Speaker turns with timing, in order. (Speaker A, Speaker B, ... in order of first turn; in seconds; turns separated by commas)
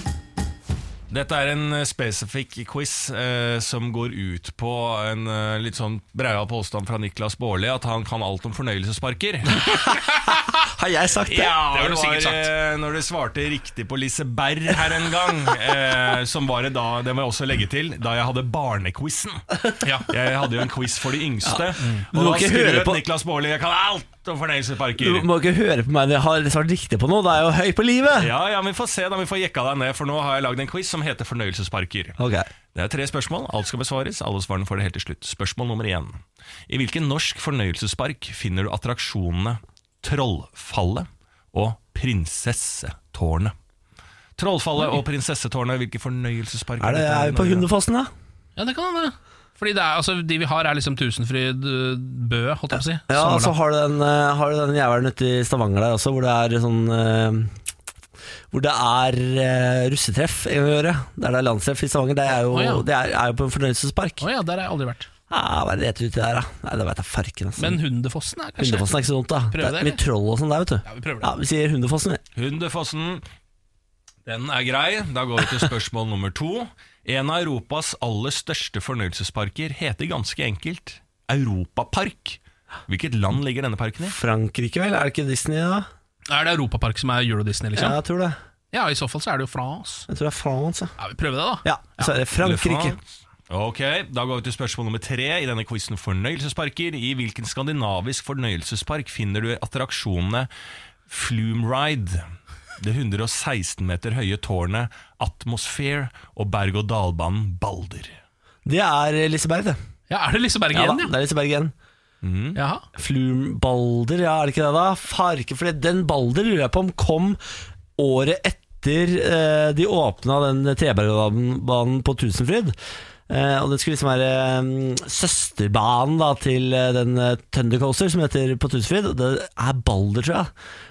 Speaker A: 1.1-9.6, Speaker B: 9.6-11.6, Speaker A: 11.2-19.4, Speaker C: 11.7-12.5, Speaker C: 19.8-20.1, Speaker A: 20.1-25.3, Speaker B: 21.4-23.0, Speaker B: 25.0-28.3, Speaker A: 28.1-32.2, Speaker B: 32.2-32.5, Speaker A: 32.7-43.5, Speaker A: 44.4-47.7, Speaker B: 46.8-48.1, Speaker C: 48.6-53.5, Speaker B: 53.1-57.5, Speaker B: 58.5-64.2, Speaker C: 62.5-62.9, Speaker C: 64.2-65.1, Speaker B: 65.3-67.8, Speaker C: 67.6-68.9, Speaker B: 68.6-72.2, Speaker C: 69.5-70.0, Speaker C: 70.8-71.3, Speaker A: 72.3-73.2, Speaker A: 74.3-84.2, Speaker B: 84.1-85.9, Speaker C: 86.3-88.0, Speaker B: 87.8-88.4, Speaker C: 88.7-90.1, Speaker B: 90.1-91.0, Speaker C: 91.0-92.1, Speaker B: 91.6-93.0, Speaker A: 92.4-100.5, Speaker A: 101.1-102.2, Speaker A: 102.8-108.2, Speaker B: 108.7-109.8, Speaker C: 110.1-111.1, Speaker B: 110.7-111.7, Speaker A: 112.2-112.6, Speaker C: 112.6-112.9, Speaker B: 113.0-117.4, Speaker B: 118.0-122.8, Speaker B: 123.3-130.5